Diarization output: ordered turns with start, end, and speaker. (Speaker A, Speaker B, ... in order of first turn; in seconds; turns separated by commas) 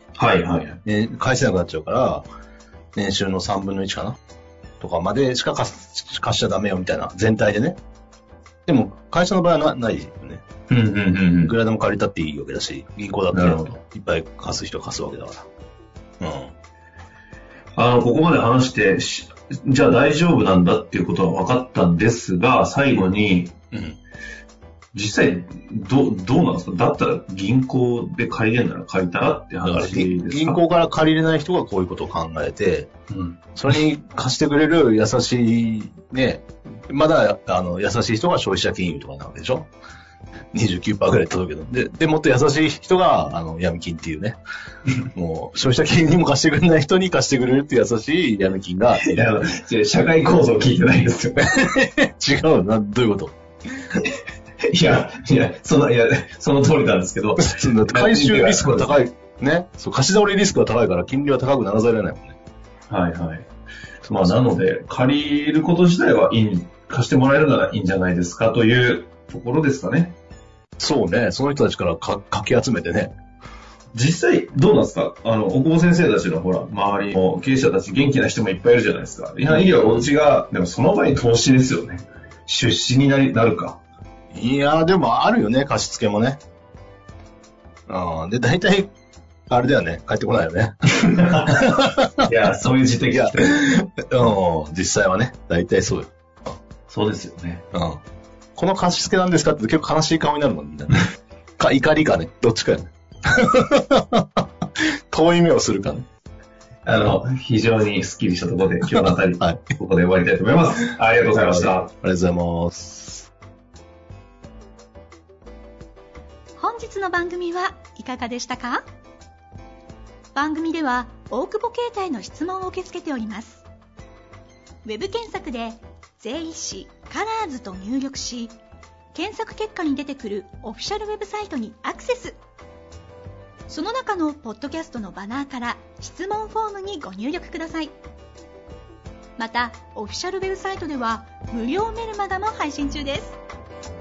Speaker A: 0.2-0.8, Speaker B: 0.8-2.2, Speaker B: 3.0-4.2, Speaker B: 4.8-7.8, Speaker B: 8.7-10.4, Speaker A: 10.7-11.6, Speaker B: 11.4-15.5, Speaker A: 13.3-13.8, Speaker B: 16.2-16.5, Speaker A: 17.8-23.6, Speaker B: 23.7-24.0, Speaker A: 24.9-30.6, Speaker B: 29.6-32.9, Speaker A: 33.1-33.5, Speaker B: 33.6-39.7, Speaker B: 40.5-44.4, Speaker B: 45.1-49.1, Speaker A: 49.0-51.5, Speaker B: 51.4-53.4, Speaker A: 54.7-59.0, Speaker B: 57.4-62.4, Speaker A: 62.9-63.5, Speaker A: 64.0-70.2, Speaker B: 64.1-64.4, Speaker B: 70.8-73.1, Speaker A: 73.9-83.8, Speaker B: 79.5-80.1, Speaker B: 84.3-86.4, Speaker B: 87.9-88.9, Speaker B: 89.5-90.7, Speaker A: 91.0-91.7, Speaker B: 91.5-92.3, Speaker A: 92.2-93.8, Speaker B: 93.1-96.1, Speaker A: 96.9-97.6, Speaker B: 97.7-98.0, Speaker B: 98.6-106.0, Speaker A: 106.9-111.9, Speaker B: 108.8-109.6, Speaker B: 111.2-113.3, Speaker C: 116.6-118.8, Speaker C: 120.3-123.6, Speaker C: 124.8-128.6, Speaker C: 129.1-132.4, Speaker C: 133.7-137.9, Speaker C: 139.4-143.4